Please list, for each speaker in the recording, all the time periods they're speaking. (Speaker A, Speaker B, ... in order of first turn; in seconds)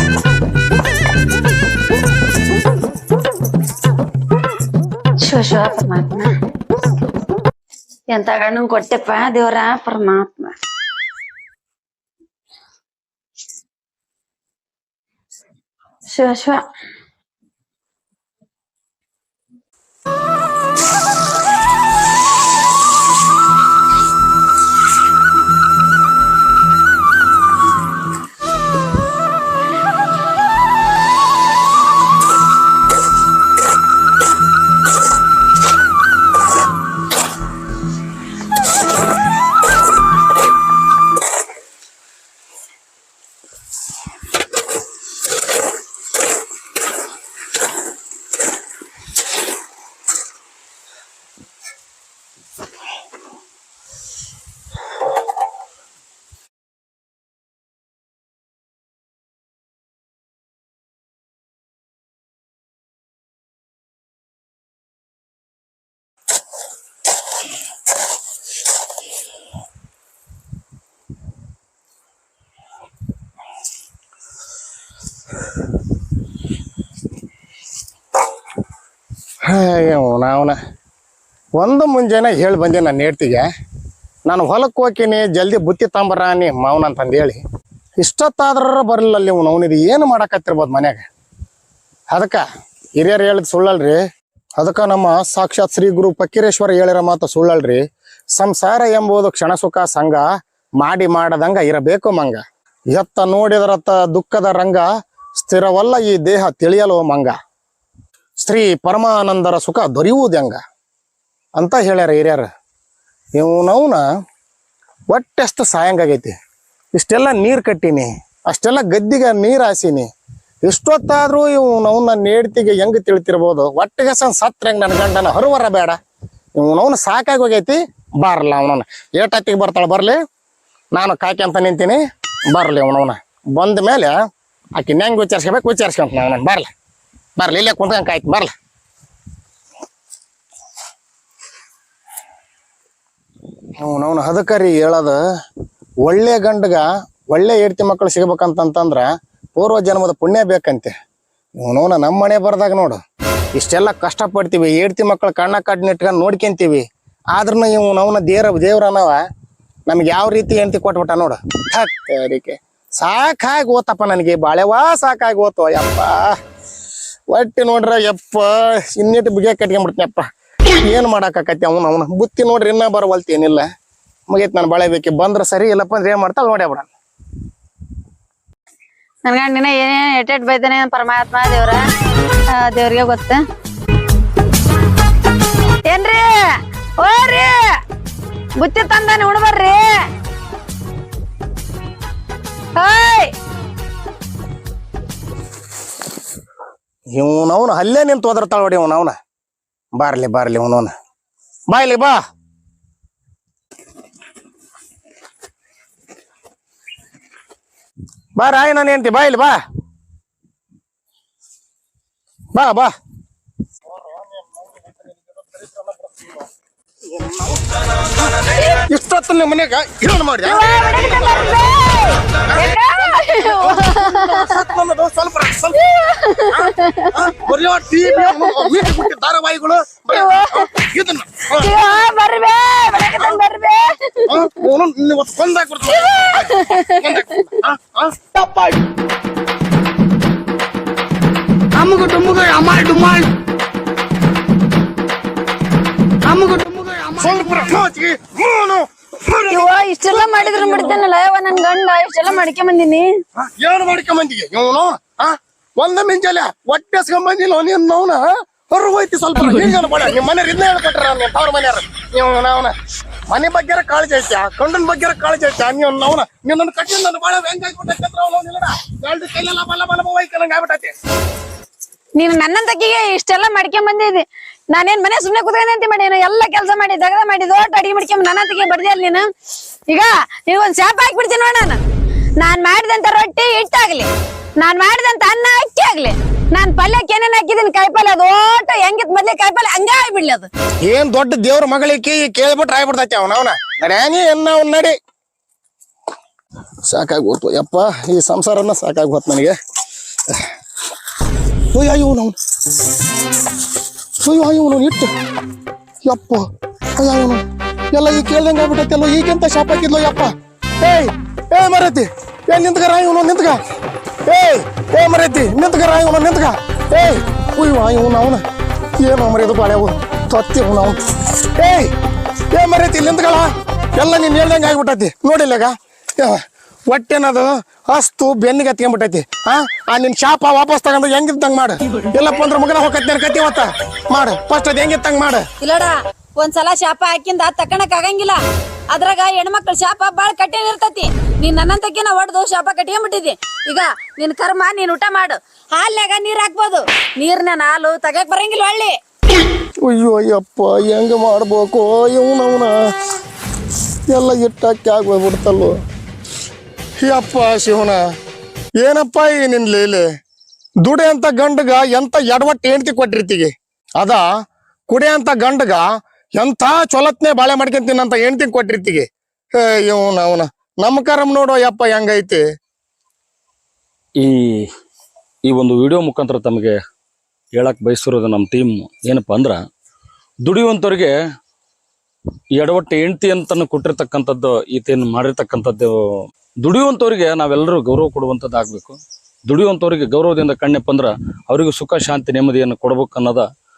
Speaker A: 5.2-6.3, 8.1-10.5, 16.1-16.6, 179.2-181.8, 182.5-183.4, 185.8-186.4, 187.0-187.7, 188.6-190.0, 192.8-193.3, 220.4-224.6, 225.7-227.2, 228.1-228.9, 230.1-230.7, 231.6-234.3, 235.9-237.6, 249.5-253.1, 272.1-279.2, 279.9-281.8, 282.4-284.1, 284.6-290.5, 335.6-338.4, 338.9-348.9
Speaker B: 79.5-80.5, 81.6-83.5, 84.2-87.4, 88.0-91.0, 92.1-92.4, 93.0-94.0, 94.6-97.8, 98.3-100.2, 100.8-102.4, 102.9-104.8, 105.4-107.3, 108.4-110.6, 111.6-112.5, 113.3-114.0, 115.1-116.3, 116.9-120.1, 120.6-126.0, 126.6-130.2, 130.9-132.0, 132.5-134.1, 134.8-136.7, 137.4-138.5, 143.8-145.2, 146.0-150.9, 151.6-153.0, 153.5-159.2, 159.9-166.3, 167.3-170.2, 170.8-173.6, 174.3-176.9, 197.2-199.1, 199.9-200.9, 201.7-202.2, 208.4-209.6, 212.5-212.9, 213.9-216.4, 217.1-217.8, 218.8-220.7, 222.6-225.8, 226.5-231.8, 234.3-238.4, 241.8-243.0, 246.9-251.0, 253.4-262.7, 263.3-270.9, 290.8-294.9, 296.9-299.5, 301.7-302.4, 304.2-305.1, 306.0-306.4, 307.0-313.6, 314.2-318.4, 319.0-321.0, 321.6-321.9, 322.5-335.4, 349.8-352.7, 354.1-355.8, 357.0-358.0, 358.8-360.0, 360.8-364.2, 364.9-365.8, 366.4-369.0, 369.6-372.4
Speaker C: 241.8-243.3, 246.3-247.0
Speaker D: 374.2-374.7, 375.4-376.8, 377.5-379.6, 380.4-381.1, 382.6-385.9, 386.6-393.4